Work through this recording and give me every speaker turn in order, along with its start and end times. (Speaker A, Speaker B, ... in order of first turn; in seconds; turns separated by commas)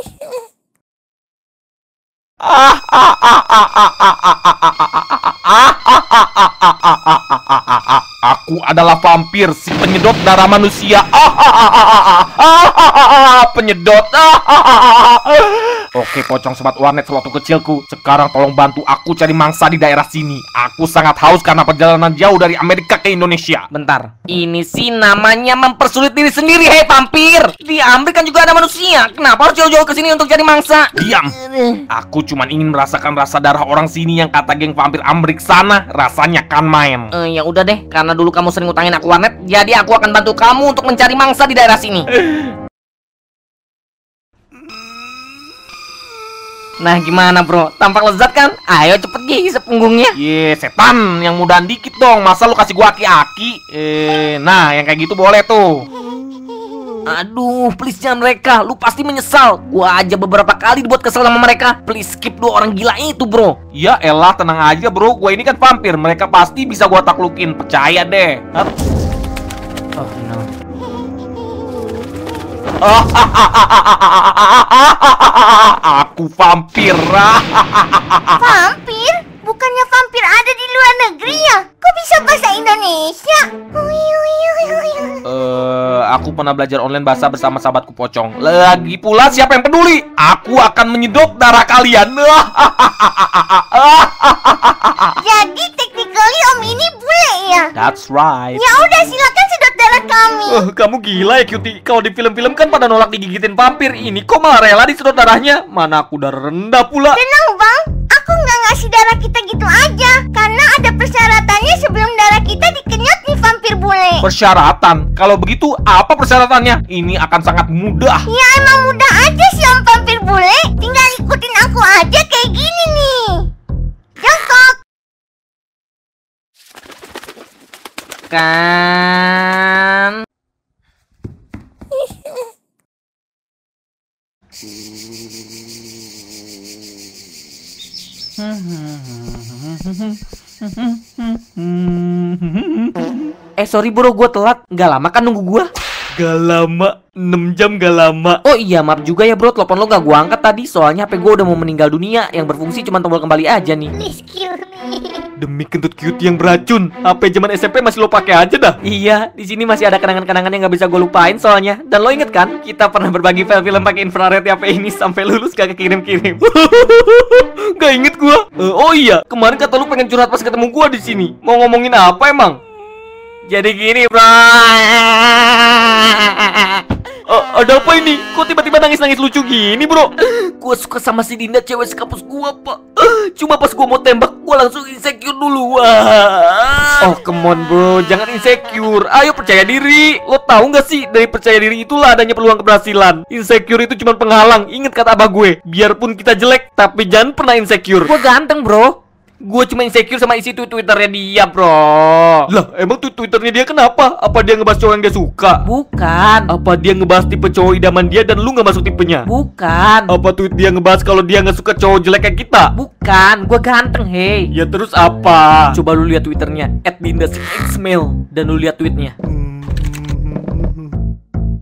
Speaker A: 2.4-23.6, Speaker B: 23.7-31.8, Speaker A: 30.9-31.3, Speaker A: 31.9-37.1, Speaker B: 37.1-42.1, Speaker B: 46.8-50.1, Speaker A: 50.1-55.9, Speaker B: 57.0-63.6, Speaker A: 63.7-68.7, Speaker B: 70.0-70.5, Speaker A: 72.8-78.5, Speaker C: 78.4-85.2, Speaker A: 85.2-95.2, Speaker C: 95.2-97.7, Speaker A: 97.7-98.6, Speaker C: 98.5-100.6, Speaker D: 100.5-107.2, Speaker C: 107.1-114.3, Speaker A: 114.2-118.2, Speaker C: 118.3-123.5, Speaker C: 124.2-124.8, Speaker B: 128.3-130.1, Speaker B: 138.4-145.7, Speaker D: 146.1-148.4, Speaker B: 148.4-153.9, Speaker C: 153.9-155.2, Speaker D: 155.4-158.8, Speaker B: 158.8-166.4, Speaker D: 166.4-172.6, Speaker B: 173.5-176.8, Speaker D: 177.3-180.1, Speaker B: 180.3-182.2, Speaker D: 181.4-198.1, Speaker B: 198.1-199.0, Speaker D: 199.4-200.7, Speaker B: 200.7-202.5, Speaker D: 202.5-205.7, Speaker B: 205.6-206.5, Speaker D: 206.5-209.3, Speaker B: 209.3-210.1, Speaker D: 210.1-212.7, Speaker B: 212.7-214.5, Speaker D: 214.5-220.9, Speaker B: 215.7-216.8, Speaker B: 218.4-219.1